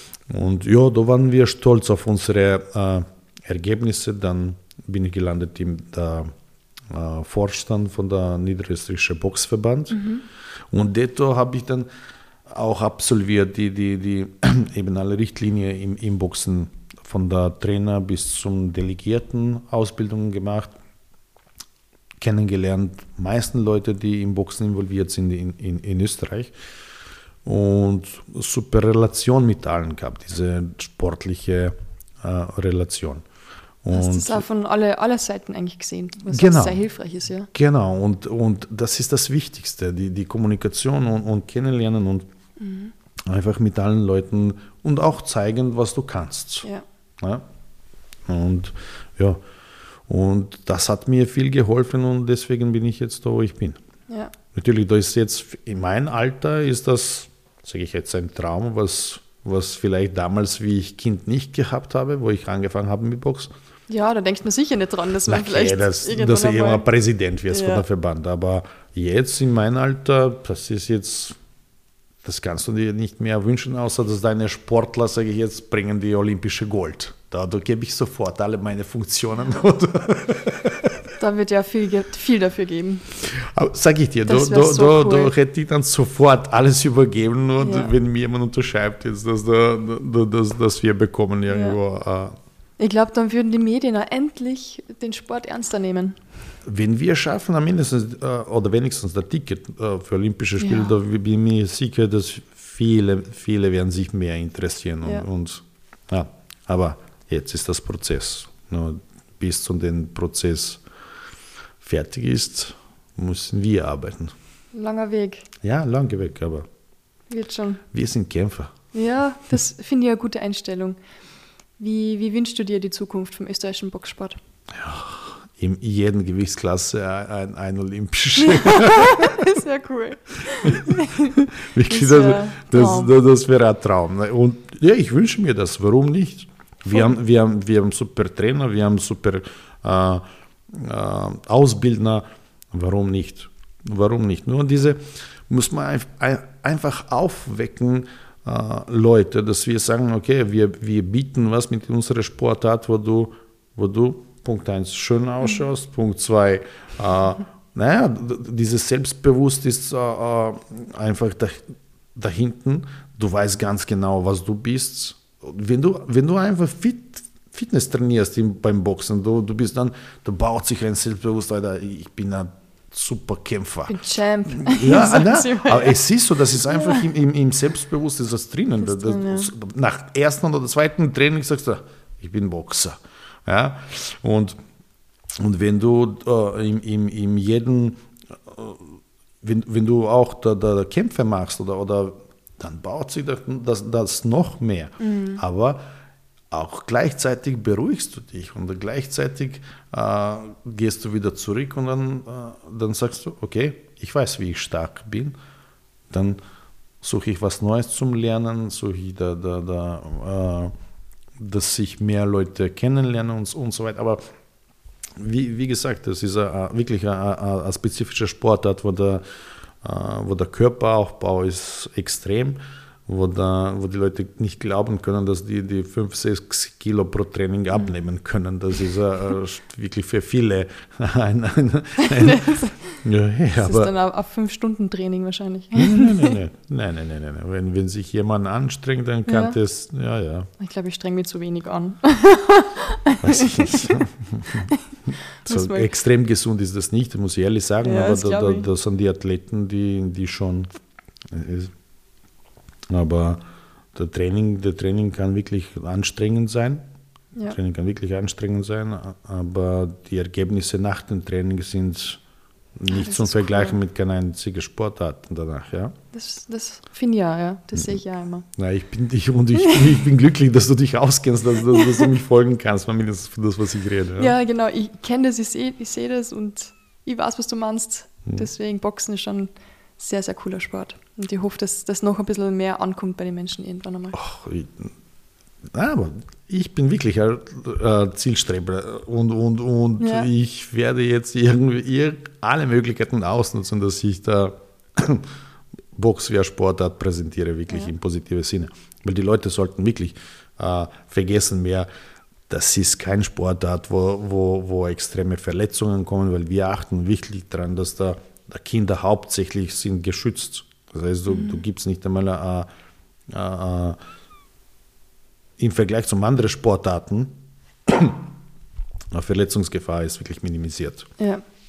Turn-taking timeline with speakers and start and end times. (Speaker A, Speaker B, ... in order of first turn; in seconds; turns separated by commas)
Speaker A: 0.3-6.3, Speaker A: 6.9-10.0, Speaker B: 9.9-10.2, Speaker A: 10.7-11.9, Speaker A: 12.5-20.7, Speaker A: 22.2-26.5, Speaker A: 27.4-33.2, Speaker A: 33.8-34.5, Speaker B: 33.9-37.5, Speaker A: 36.3-36.8, Speaker A: 37.5-42.3, Speaker B: 42.6-42.9, Speaker A: 43.2-46.6, Speaker A: 48.2-49.4, Speaker A: 50.1-53.8, Speaker B: 54.1-54.3, Speaker A: 54.5-63.5, Speaker B: 63.9-66.8, Speaker A: 65.3-71.4, Speaker B: 67.5-67.8, Speaker A: 72.2-81.1, Speaker B: 81.2-83.1, Speaker A: 83.2-92.3, Speaker B: 84.2-85.3, Speaker B: 87.6-87.9, Speaker B: 91.5-91.8, Speaker B: 92.8-96.2, Speaker A: 96.6-110.8, Speaker B: 100.6-100.9, Speaker A: 111.8-114.3, Speaker B: 114.7-115.5, Speaker A: 115.6-116.7, Speaker B: 117.3-117.8, Speaker A: 117.9-118.7, Speaker B: 118.9-121.0, Speaker B: 121.8-124.4, Speaker A: 124.7-129.5, Speaker B: 128.4-133.1, Speaker A: 130.6-184.6, Speaker B: 173.9-176.0, Speaker B: 176.7-177.0, Speaker B: 178.8-179.5, Speaker A: 185.3-195.8, Speaker B: 195.0-195.4, Speaker A: 196.5-205.3, Speaker A: 206.1-206.4, Speaker A: 207.0-210.7, Speaker A: 211.4-214.2, Speaker A: 215.2-219.2, Speaker A: 219.8-233.9, Speaker B: 232.0-233.0, Speaker B: 233.6-236.4, Speaker A: 235.7-240.5, Speaker B: 239.2-239.6, Speaker B: 240.6-244.0, Speaker A: 243.2-244.7, Speaker B: 245.4-245.9, Speaker A: 245.4-250.7, Speaker B: 247.8-248.7, Speaker A: 251.3-251.7, Speaker A: 252.9-253.4, Speaker A: 253.9-256.8, Speaker A: 257.5-262.2, Speaker A: 262.8-265.9, Speaker B: 262.9-263.8, Speaker B: 266.1-268.4, Speaker A: 268.6-274.3, Speaker B: 271.7-272.1, Speaker B: 274.2-284.2, Speaker A: 284.1-284.9, Speaker A: 285.7-295.3, Speaker B: 290.0-290.3, Speaker A: 295.9-301.9, Speaker A: 302.5-312.7, Speaker B: 311.3-311.6, Speaker A: 313.3-314.0, Speaker A: 315.6-317.3, Speaker A: 317.9-318.2, Speaker A: 319.1-321.1